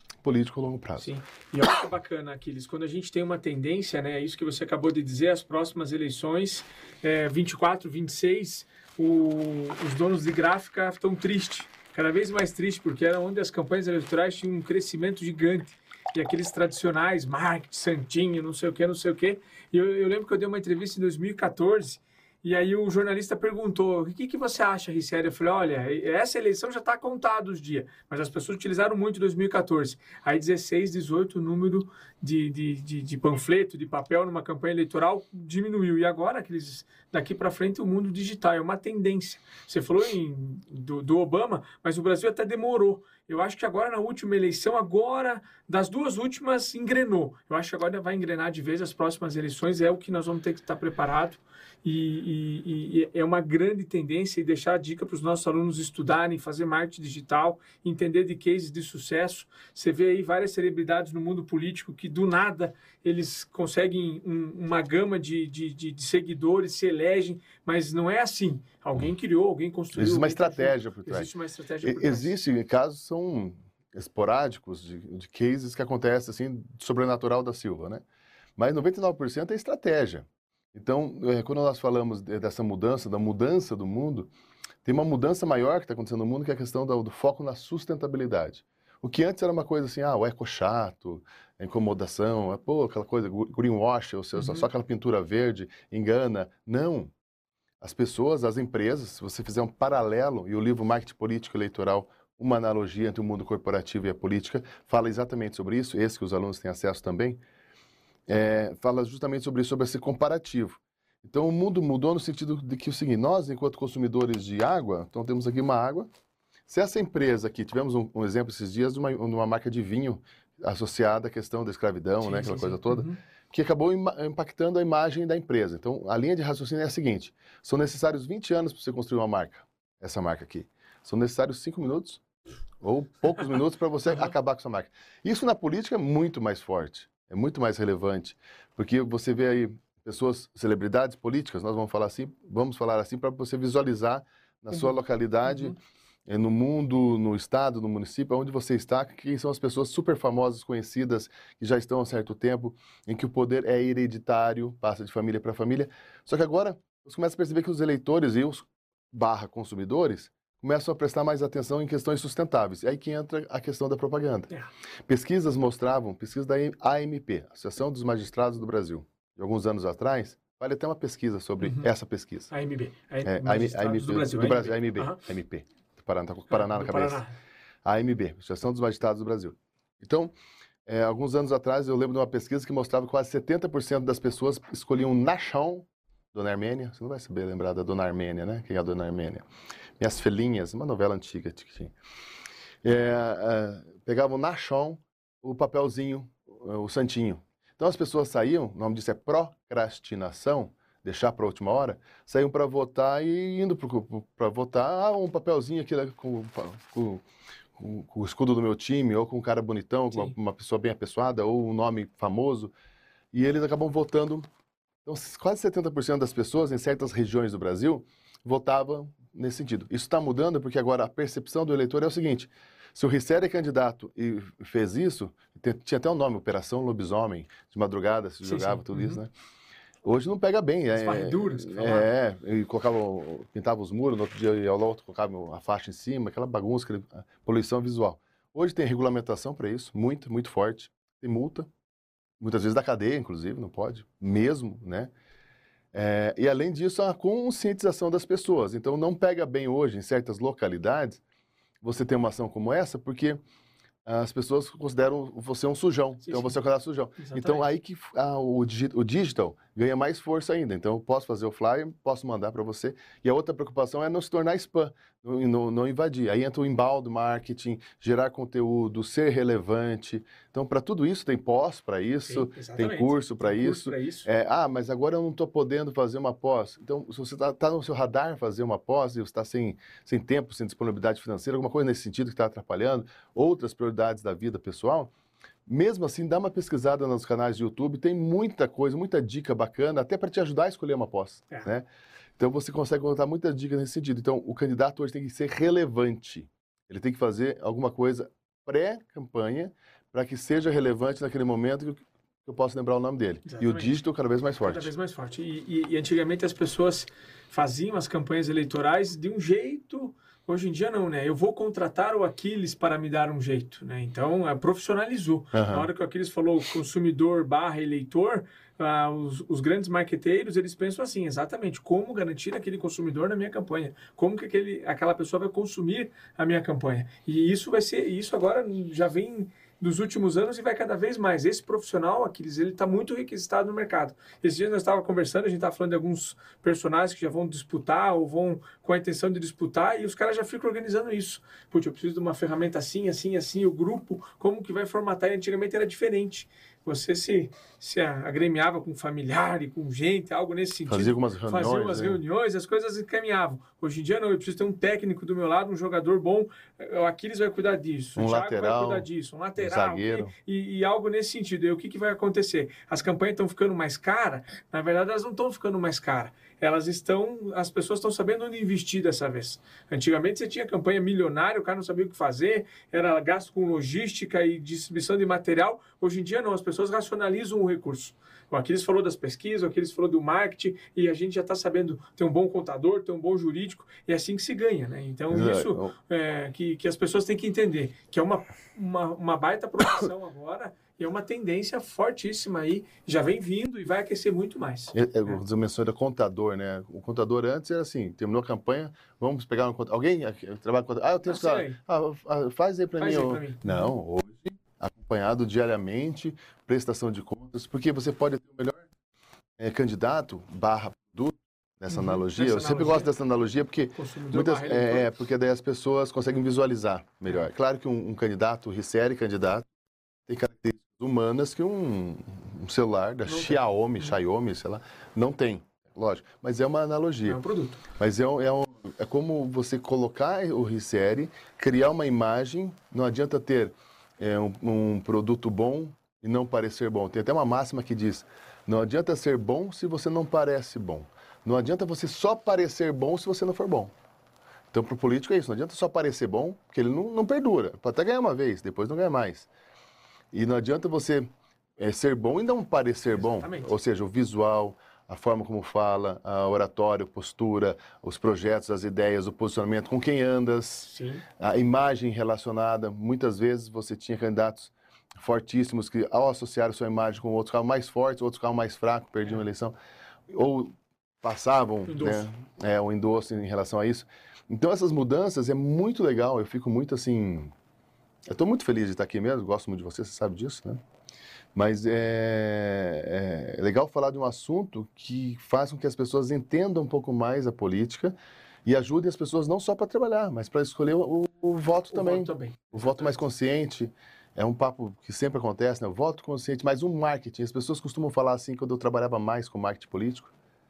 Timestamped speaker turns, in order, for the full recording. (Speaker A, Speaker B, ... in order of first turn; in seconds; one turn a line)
Speaker A: 0.2-1.1
Speaker B: 1.0-72.3
Speaker A: 70.0-71.3
Speaker A: 71.8-78.0
Speaker A: 78.6-84.3
Speaker A: 84.8-97.1
Speaker B: 94.4-94.7
Speaker A: 97.8-107.4
Speaker A: 108.3-116.1
Speaker A: 116.7-132.2
Speaker B: 122.2-123.2
Speaker A: 132.8-164.5
Speaker B: 145.5-145.7
Speaker A: 165.1-172.5
Speaker B: 171.6-171.9
Speaker B: 172.5-175.2
Speaker A: 173.2-177.2
Speaker B: 176.5-177.4
Speaker A: 177.8-180.3
Speaker A: 180.9-189.4
Speaker A: 190.0-191.9
Speaker A: 192.8-207.2
Speaker A: 207.8-212.7
Speaker A: 213.3-214.5
Speaker A: 215.1-229.3
Speaker B: 228.4-229.2
Speaker A: 230.0-241.7
Speaker B: 230.9-232.1
Speaker A: 242.4-245.1
Speaker A: 245.9-251.2
Speaker A: 251.8-253.4
Speaker A: 254.1-285.1
Speaker B: 256.2-256.6
Speaker B: 257.2-257.7
Speaker B: 272.3-274.3
Speaker A: 285.7-291.9
Speaker A: 292.4-304.9
Speaker B: 303.4-304.0
Speaker B: 304.6-395.4
Speaker A: 315.5-315.9
Speaker A: 350.9-352.2
Speaker A: 358.2-359.1
Speaker A: 359.6-360.3
Speaker A: 385.3-385.9
Speaker A: 394.9-408.9
Speaker B: 401.3-401.8
Speaker B: 403.0-403.9
Speaker A: 409.6-419.7
Speaker B: 411.9-413.1
Speaker B: 413.9-415.1
Speaker A: 420.3-427.4
Speaker B: 423.3-424.1
Speaker B: 427.3-427.8
Speaker A: 428.0-443.9
Speaker A: 444.7-449.5
Speaker A: 450.3-469.8
Speaker B: 453.1-453.7
Speaker B: 460.8-461.2
Speaker A: 470.3-477.5
Speaker B: 471.9-472.3
Speaker A: 478.3-480.8
Speaker A: 481.6-500.3
Speaker B: 491.9-493.1